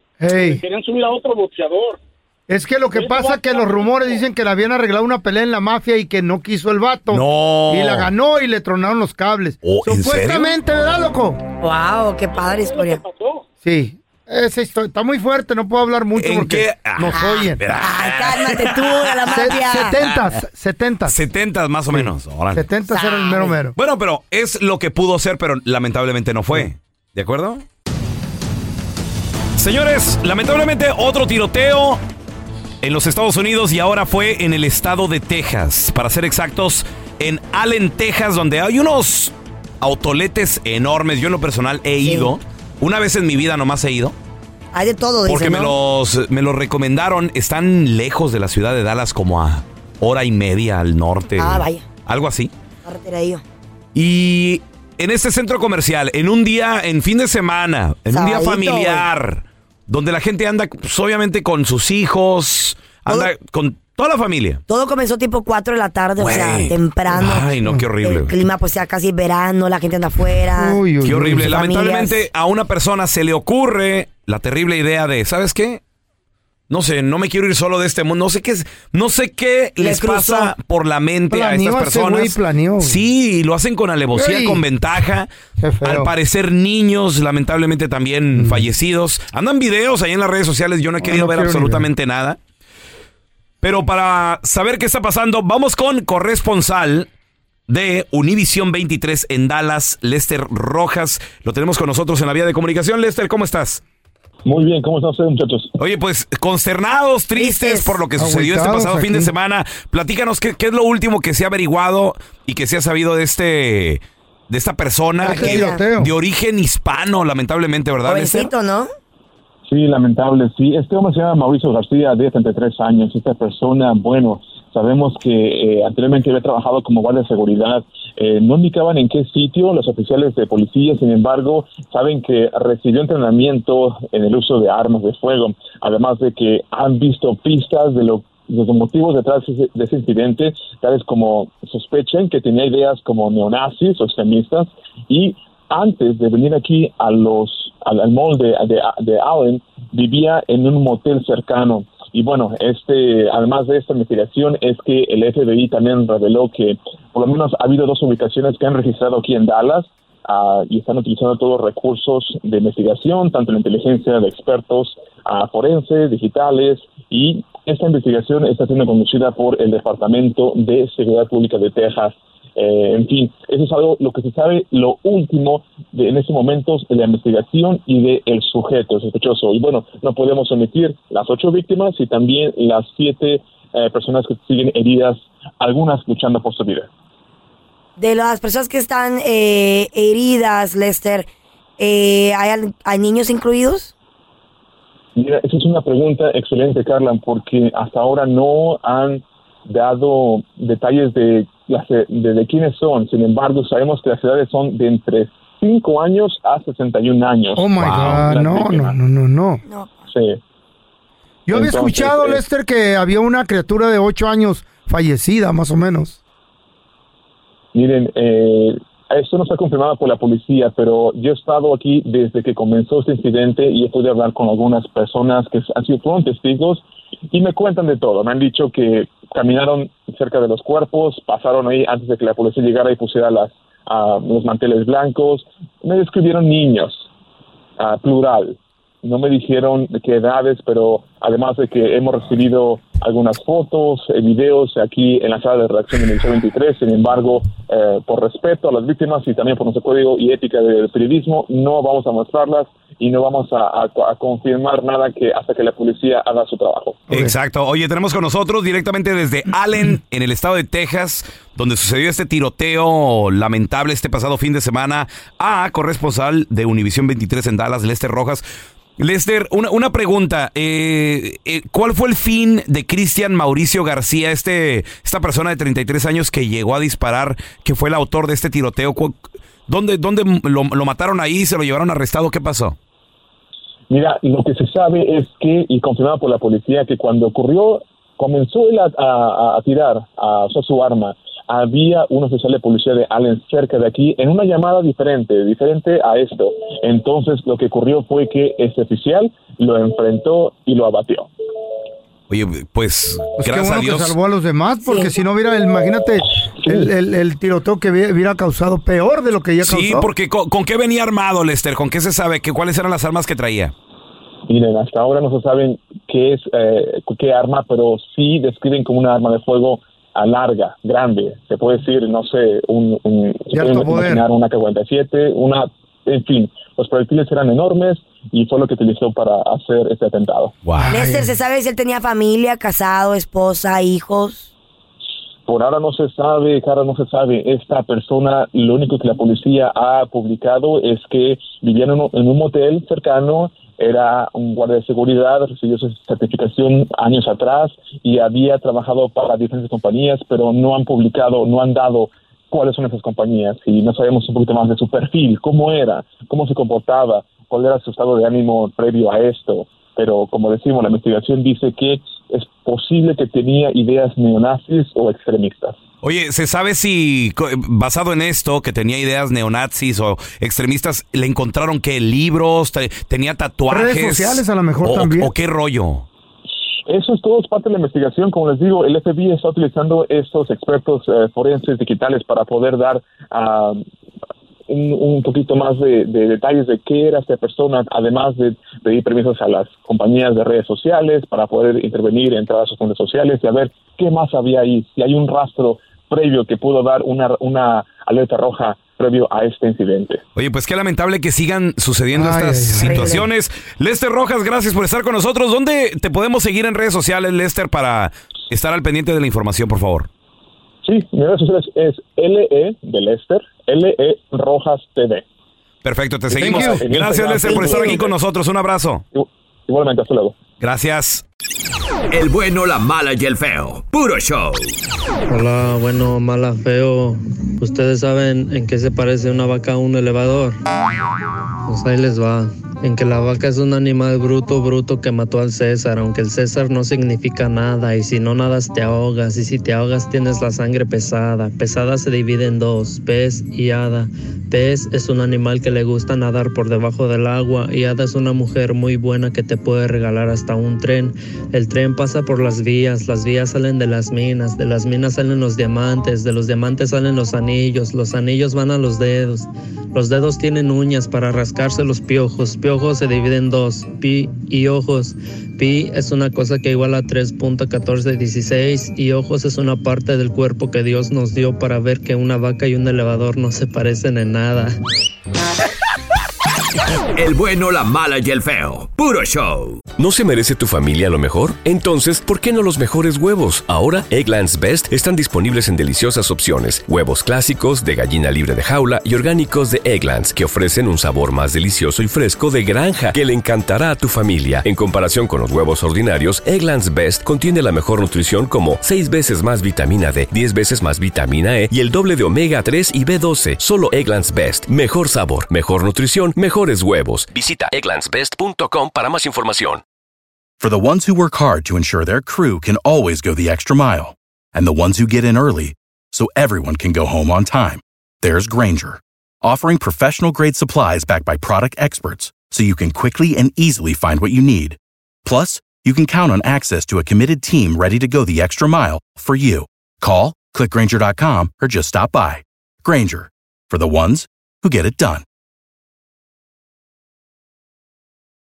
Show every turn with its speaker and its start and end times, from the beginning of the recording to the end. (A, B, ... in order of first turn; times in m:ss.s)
0:00.2-0:00.6 A
0:00.5-0:02.0 B
0:02.5-0:11.4 A
0:02.9-0:04.2 B
0:07.1-0:08.1 C
0:09.6-0:10.6 C
0:11.6-0:13.0 D
0:12.4-0:13.4 B
0:13.6-0:17.6 A
0:16.2-0:19.5 C
0:17.1-0:20.0 D
0:19.3-0:21.2 A
0:21.1-0:22.7 C
0:21.9-0:23.7 A
0:22.9-0:23.6 D
0:23.8-0:27.6 C
0:29.6-0:32.0 C
0:32.8-0:44.2 C
0:42.0-0:42.3 D
0:44.7-0:45.7 D
0:45.2-0:52.5 C
0:51.4-0:51.8 D
0:52.8-0:53.4 D
0:54.0-1:04.6 C
0:58.1-0:59.1 D
1:04.7-1:10.8 D
1:06.2-1:08.3 C
1:10.6-1:11.5 A
1:11.0-1:15.8 C
1:11.4-1:12.2 D
1:16.7-1:25.3 C
1:19.8-1:20.5 D
1:21.3-1:23.0 A
1:24.1-1:24.6 A
1:25.6-1:26.1 A
1:25.8-1:32.4 C
1:28.4-1:28.7 A
1:31.0-1:31.9 A
1:33.6-1:37.1 C
1:37.7-1:43.8 C
1:44.4-1:45.7 E
1:45.8-1:58.5 C
1:47.4-1:48.0 D
1:48.2-1:49.3 A
1:55.2-1:56.1 A
1:55.2-1:55.8 D
1:58.0-1:58.9 D
1:59.7-3:06.9 E
3:08.0-3:11.3 D
3:11.8-3:13.9 D
3:15.2-3:28.9 E
3:27.6-3:29.6 A
3:27.8-3:28.3 C
3:29.7-3:30.1 D
3:30.1-3:30.4 E
3:31.5-3:36.2 A
3:31.5-3:32.4 E
3:37.7-3:57.1 E
3:57.8-4:17.0 E
4:17.1-4:17.3 A
4:17.1-4:28.4 C
4:29.0-4:42.8 C
4:43.9-5:01.3 E
5:02.3-5:04.2 C
5:03.4-5:10.1 A
5:04.9-5:05.1 D
5:09.6-5:13.7 C
5:14.5-5:30.6 E
5:23.5-5:24.2 A
5:30.6-5:30.9 C
5:30.8-5:31.3 A
5:30.9-5:34.5 D
5:35.5-6:05.8 E
6:06.0-6:16.1 C
6:13.7-6:15.3 A
6:16.9-6:23.8 E
6:24.7-6:40.2 E
6:40.4-6:50.1 C
6:42.1-6:43.2 A
6:42.8-6:43.2 D
6:50.8-6:55.2 E
6:55.8-6:59.0 C
6:56.4-6:56.9 A
6:56.4-6:58.1 E
6:57.5-6:57.9 A
6:59.2-7:00.4 E
7:00.6-7:01.2 C
7:02.1-7:04.7 F
7:05.3-7:10.6 G
7:11.7-7:54.8 G
7:57.2-7:59.8 F
7:59.9-8:29.8 H
8:30.6-8:55.2 I